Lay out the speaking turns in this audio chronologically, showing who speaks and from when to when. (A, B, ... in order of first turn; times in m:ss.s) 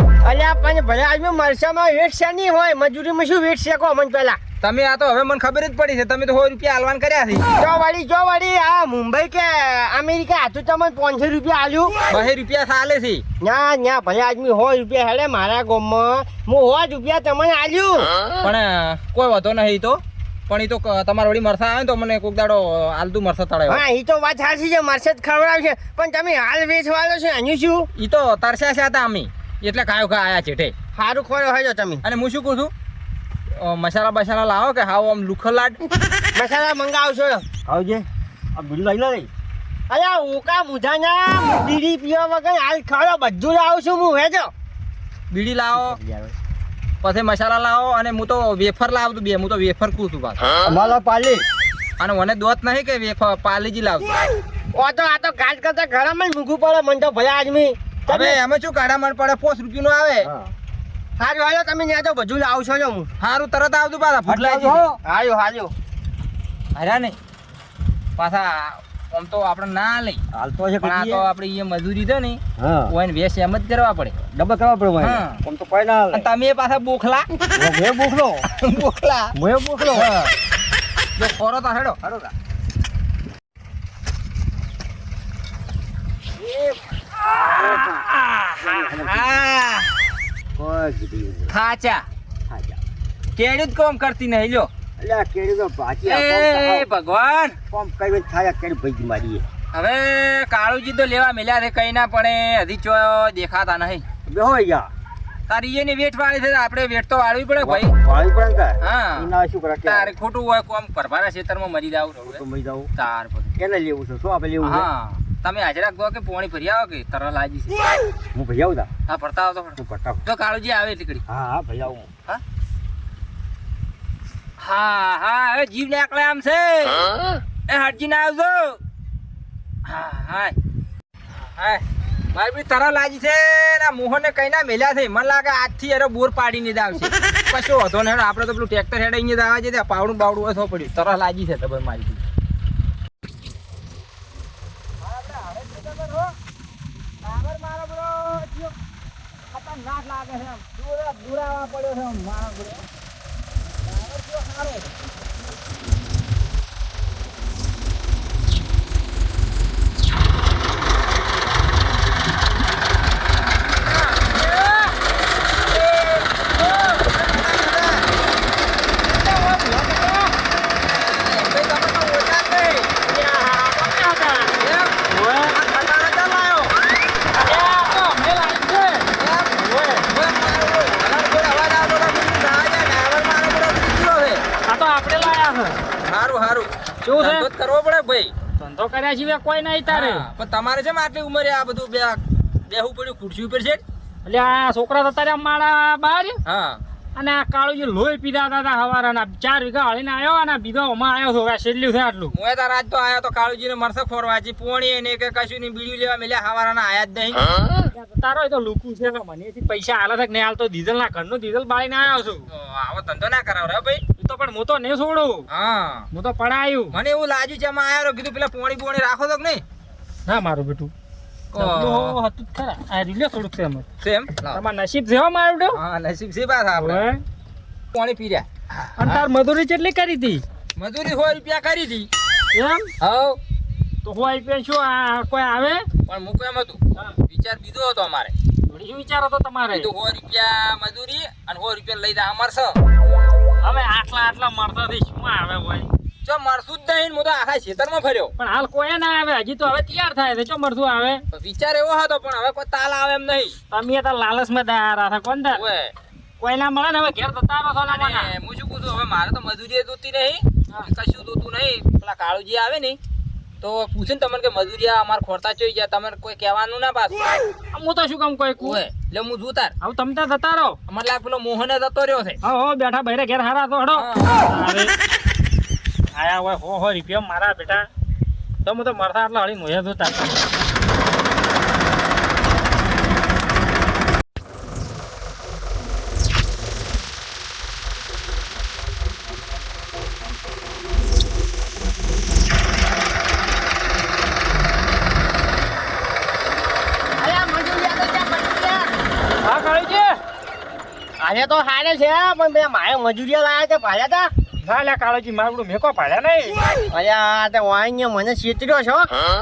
0:00.2-0:04.4 A
0:04.6-0:07.5 B
0:07.6-0:11.9 A
0:12.1-0:13.2 B
0:13.4-0:18.1 A
0:18.4-0:23.8 B
0:23.7-0:27.9 A
0:28.0-0:30.7 B
0:31.0-0:32.0 A
0:32.0-0:32.7 B
0:33.6-0:35.8 B
0:36.4-0:37.4 A
0:37.7-0:39.3 C
0:39.9-0:44.5 A
0:45.3-0:46.0 B
0:45.7-0:46.3 C
0:47.0-0:50.4 B
0:50.6-0:51.4 C
0:52.0-0:54.2 B
0:54.7-0:58.4 A
0:58.1-1:00.3 B
1:00.2-1:00.5 C
1:01.2-1:03.1 A
1:03.2-1:04.8 B
1:04.3-1:05.0 C
1:05.0-1:05.7 A
1:06.8-1:07.2 B
1:08.2-1:10.2 B
1:10.3-1:11.2 C
1:10.8-1:14.2 B
1:12.6-1:12.9 C
1:14.3-1:16.3 C
1:15.0-1:15.4 B
1:16.1-1:17.3 B
1:17.6-1:18.5 C
1:18.6-1:19.3 B
1:19.4-1:20.2 C
1:19.9-1:20.3 B
1:21.2-1:22.0 B
1:22.0-1:22.3 C
1:27.2-1:29.4 C
1:27.3-1:30.0 B
1:30.6-1:31.5 C
1:31.5-1:32.0 B
1:32.5-1:32.8 C
1:33.4-1:34.7 B
1:35.0-1:36.9 C
1:36.0-1:37.6 B
1:37.7-1:39.5 C
1:39.7-1:44.0 B
1:44.3-1:44.9 C
1:45.5-1:48.0 B
1:47.6-1:50.1 C
1:48.8-1:49.3 B
1:49.8-1:52.4 B
1:52.2-1:52.9 C
1:53.0-1:53.6 B
1:53.6-1:54.9 C
1:54.6-1:57.8 B
1:58.3-1:58.9 C
1:59.1-2:01.2 B
1:59.8-2:00.2 C
2:01.3-2:02.1 C
2:04.6-2:07.1 B
2:07.7-2:08.8 B
2:09.9-2:10.6 B
2:11.5-2:22.2 B
2:25.1-2:26.3 B
2:27.2-2:28.7 B
2:29.5-2:32.9 B
2:33.8-2:35.0 B
2:43.8-2:45.0 D
2:46.2-2:47.1 D
2:46.9-2:48.1 B
2:49.1-2:50.4 D
2:50.9-2:52.9 B
2:53.0-2:54.6 D
2:54.6-2:56.8 B
2:55.1-2:55.6 D
2:57.4-3:00.1 D
2:59.2-3:04.4 B
3:04.6-3:05.8 D
3:06.0-3:08.3 B
3:07.0-3:07.5 D
3:08.6-3:10.2 D
3:09.9-3:13.8 B
3:14.2-3:16.4 D
3:16.4-3:16.8 B
3:17.2-3:22.3 D
3:22.3-3:27.6 B
3:27.9-3:32.5 D
3:32.5-3:34.0 B
3:34.2-3:35.5 D
3:35.5-3:36.1 B
3:36.1-3:37.0 D
3:36.9-3:39.6 B
3:40.3-3:40.9 D
3:41.5-3:42.2 B
3:41.5-3:43.9 D
3:44.0-3:44.6 B
3:44.5-3:45.8 D
3:45.7-3:47.0 B
3:46.8-3:47.2 D
3:47.9-3:49.2 B
3:49.0-3:50.4 D
3:50.8-3:52.1 B
3:52.5-3:52.9 D
3:53.0-3:53.4 B
3:54.0-3:55.9 D
3:56.1-3:58.3 B
3:58.7-3:59.9 D
3:59.7-4:02.8 B
4:03.6-4:05.9 D
4:06.2-4:08.3 B
4:08.4-4:11.2 D
4:11.3-4:13.6 B
4:13.7-4:15.6 D
4:15.5-4:15.9 B
4:16.4-4:18.3 D
4:17.9-4:23.0 B
4:23.6-4:27.4 B
4:27.7-4:28.8 D
4:28.6-4:29.8 B
4:29.8-4:30.8 D
4:30.9-4:32.4 B
4:32.4-4:34.9 D
4:34.0-4:34.5 B
4:36.1-4:37.9 D
4:38.6-4:40.5 D
4:57.2-4:58.9 A
4:59.4-5:00.2 D
5:01.2-5:04.3 A
5:04.6-5:06.6 D
5:06.9-5:09.1 A